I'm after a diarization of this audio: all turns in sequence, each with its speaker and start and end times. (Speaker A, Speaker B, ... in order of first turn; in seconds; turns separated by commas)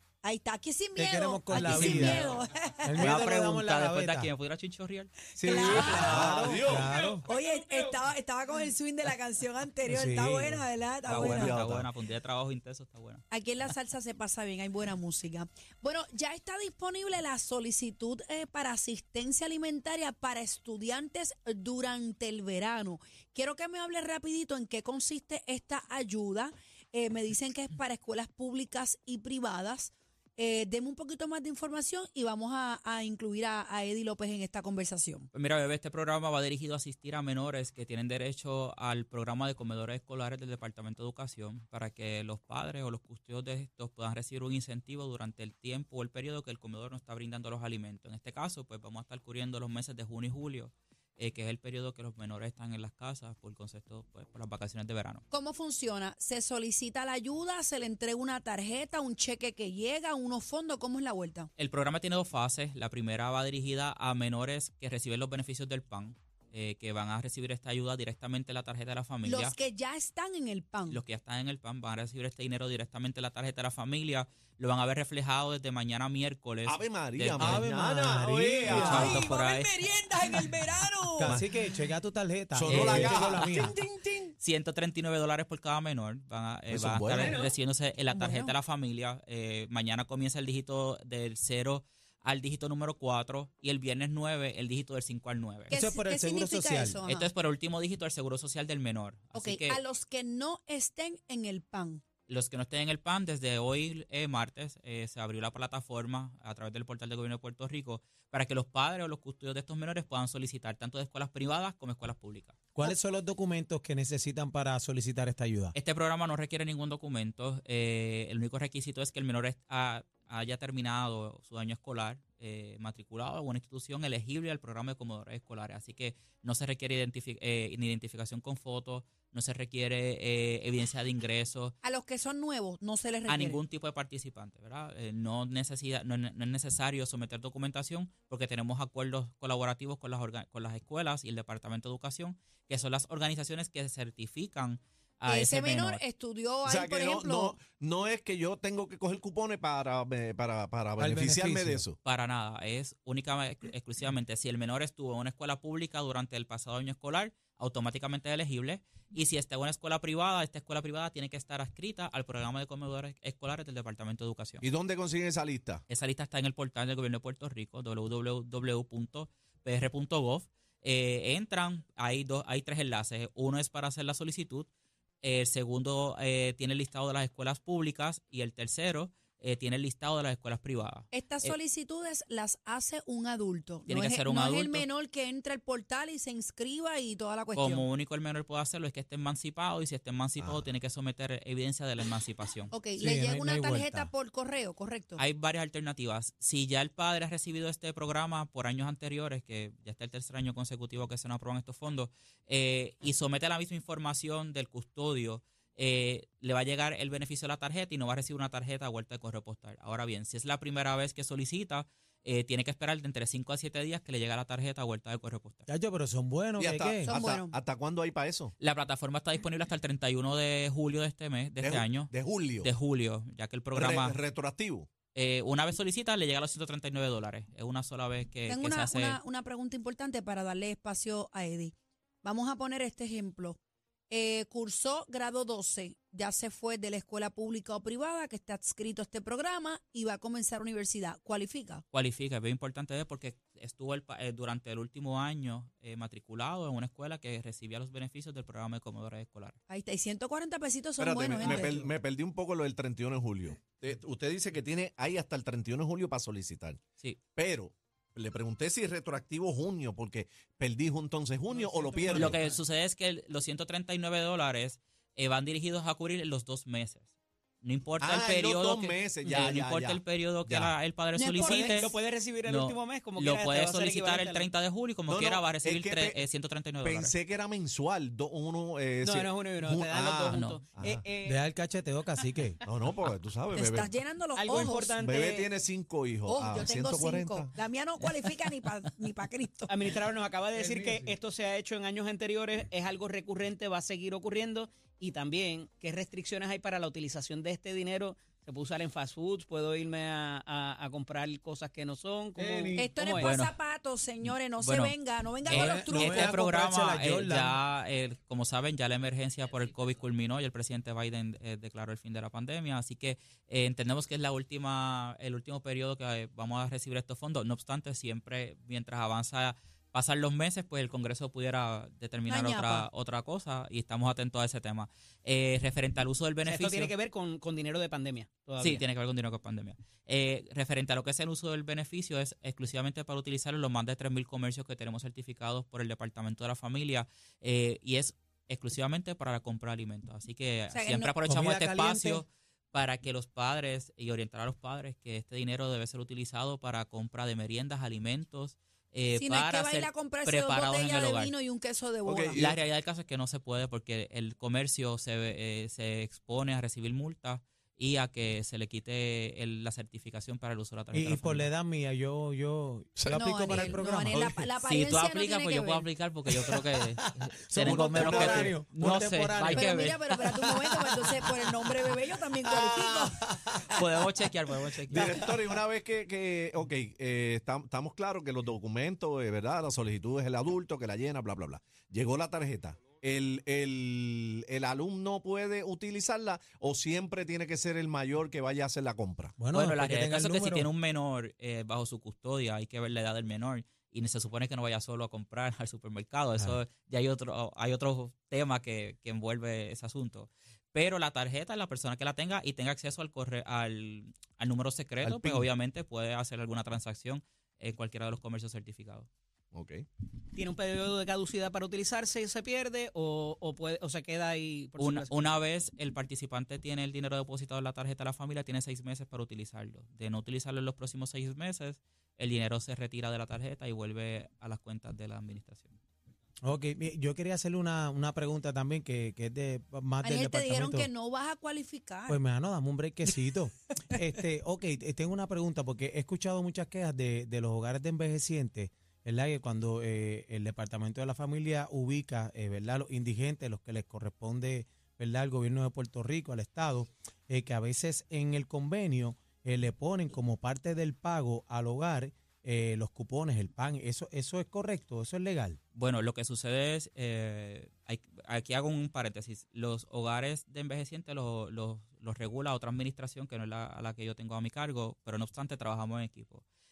Speaker A: 0.2-3.2, Speaker B: 0.9-4.3, Speaker C: 1.5-2.4, Speaker C: 3.0-5.1, Speaker B: 5.3-7.2, Speaker A: 5.4-6.3, Speaker D: 5.6-6.9, Speaker A: 7.2-11.6, Speaker B: 9.9-10.7, Speaker D: 11.1-11.9, Speaker C: 11.1-13.2, Speaker A: 13.3-35.3, Speaker C: 35.3-55.2, Speaker A: 55.3-61.5, Speaker C: 61.6-69.5, Speaker A: 69.2-71.0, Speaker C: 70.9-77.7, Speaker D: 76.6-79.1, Speaker B: 77.4-79.2, Speaker C: 78.7-79.8, Speaker A: 78.7-81.4, Speaker E: 79.0-81.0, Speaker B: 81.2-83.8, Speaker D: 82.5-83.7, Speaker C: 82.6-83.7, Speaker E: 84.0-84.3, Speaker C: 84.4-95.7, Speaker D: 86.7-87.4, Speaker E: 87.2-87.5, Speaker A: 88.1-88.5, Speaker A: 95.7-97.3, Speaker B: 95.7-97.0, Speaker C: 97.0-99.8, Speaker A: 99.3-102.0, Speaker C: 102.3-112.5, Speaker B: 112.7-115.7, Speaker C: 115.7-131.8, Speaker A: 131.8-133.6, Speaker C: 133.3-146.0, Speaker A: 145.2-147.6, Speaker D: 146.6-151.9, Speaker B: 151.0-151.8, Speaker C: 152.0-164.6, Speaker D: 164.6-165.8, Speaker C: 165.9-174.7, Speaker C: 175.2-181.5, Speaker A: 181.1-187.8, Speaker C: 183.9-184.9, Speaker C: 187.5-192.7, Speaker B: 190.4-190.7, Speaker A: 192.7-195.2, Speaker B: 193.0-194.1, Speaker C: 195.2-215.7, Speaker B: 215.7-217.1, Speaker D: 216.6-218.5, Speaker A: 217.0-217.6, Speaker C: 218.6-224.2, Speaker D: 221.6-222.7, Speaker D: 223.7-224.9, Speaker C: 225.1-229.2, Speaker A: 228.5-233.6, Speaker A: 234.1-241.8, Speaker C: 241.9-249.6, Speaker A: 249.7-251.9, Speaker D: 251.0-256.8, Speaker D: 257.4-262.3, Speaker E: 261.7-262.5, Speaker C: 262.1-267.0, Speaker C: 267.6-277.1, Speaker D: 268.0-270.7, Speaker A: 271.1-271.9, Speaker E: 271.3-274.5, Speaker D: 275.1-276.2, Speaker D: 276.8-280.2, Speaker E: 279.0-281.4, Speaker C: 280.3-280.6, Speaker D: 280.8-281.0, Speaker B: 281.2-282.6, Speaker D: 282.7-283.9, Speaker A: 283.5-284.9, Speaker E: 284.4-285.5, Speaker D: 285.0-287.5, Speaker A: 286.2-289.7, Speaker E: 289.7-303.3, Speaker B: 290.5-291.1, Speaker B: 302.4-302.9, Speaker A: 302.7-306.4, Speaker C: 303.2-303.6, Speaker C: 304.2-326.9, Speaker B: 305.4-307.6, Speaker A: 322.3-322.9, Speaker E: 326.4-328.8, Speaker C: 328.6-351.3, Speaker A: 340.7-341.1, Speaker B: 341.2-342.2, Speaker A: 349.1-352.5, Speaker D: 352.1-352.6, Speaker C: 352.4-361.5, Speaker B: 360.9-364.5, Speaker A: 363.1-365.9, Speaker C: 364.6-370.6, Speaker B: 366.3-366.6, Speaker B: 367.4-373.8, Speaker D: 367.6-368.5, Speaker A: 369.5-373.2, Speaker C: 373.7-375.3, Speaker B: 374.6-375.6, Speaker D: 374.9-389.3, Speaker B: 389.4-390.7, Speaker C: 389.5-409.1, Speaker B: 405.0-405.5, Speaker D: 409.5-409.8, Speaker E: 410.3-415.4, Speaker C: 414.8-425.8, Speaker B: 426.4-430.9, Speaker A: 430.0-432.2, Speaker B: 432.1-455.6, Speaker C: 455.7-466.4